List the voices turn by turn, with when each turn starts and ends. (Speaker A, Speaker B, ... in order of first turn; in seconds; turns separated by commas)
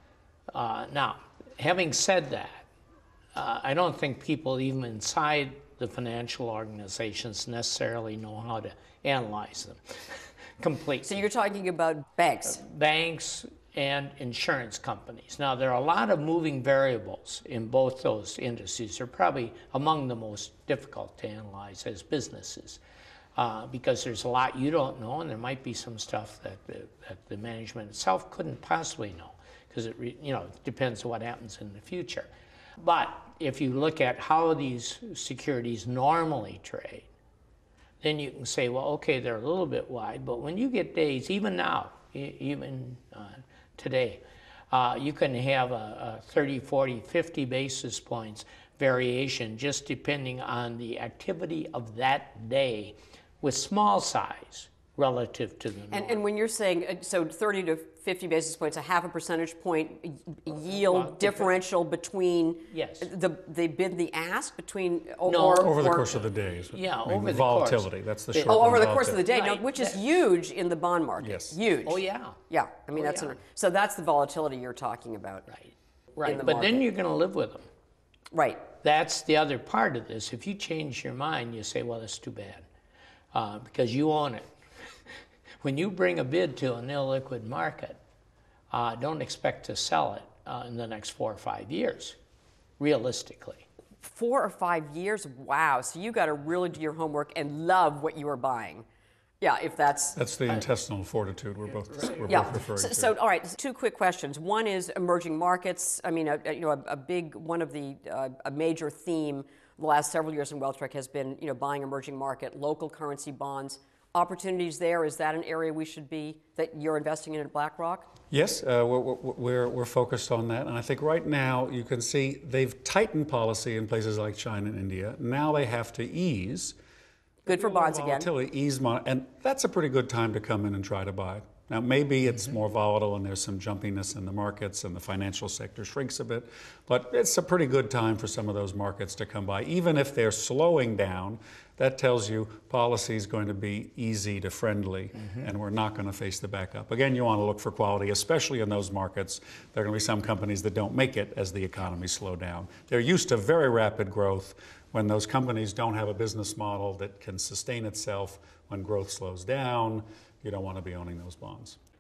Speaker A: 0.5-2.7, Speaker A: 3.4-11.2, Speaker B: 11.0-12.6, Speaker A: 12.4-22.8, Speaker A: 23.4-37.1, Speaker A: 38.0-56.2, Speaker B: 55.9-66.2, Speaker A: 60.8-61.5, Speaker A: 62.7-63.1, Speaker A: 65.3-65.8, Speaker C: 65.6-69.2, Speaker A: 66.7-70.2, Speaker B: 68.5-75.5, Speaker C: 71.2-71.6, Speaker A: 71.8-72.4, Speaker A: 73.0-73.4, Speaker A: 75.5-77.6, Speaker B: 76.2-76.8, Speaker B: 78.3-78.7, Speaker A: 78.8-82.7, Speaker A: 83.3-84.5, Speaker A: 85.6-88.0, Speaker A: 88.7-92.2, Speaker A: 92.8-93.7, Speaker B: 94.0-98.8, Speaker B: 99.4-100.2, Speaker C: 100.2-103.1, Speaker B: 102.3-118.1, Speaker C: 118.3-126.8, Speaker C: 127.5-161.8, Speaker B: 127.5-128.3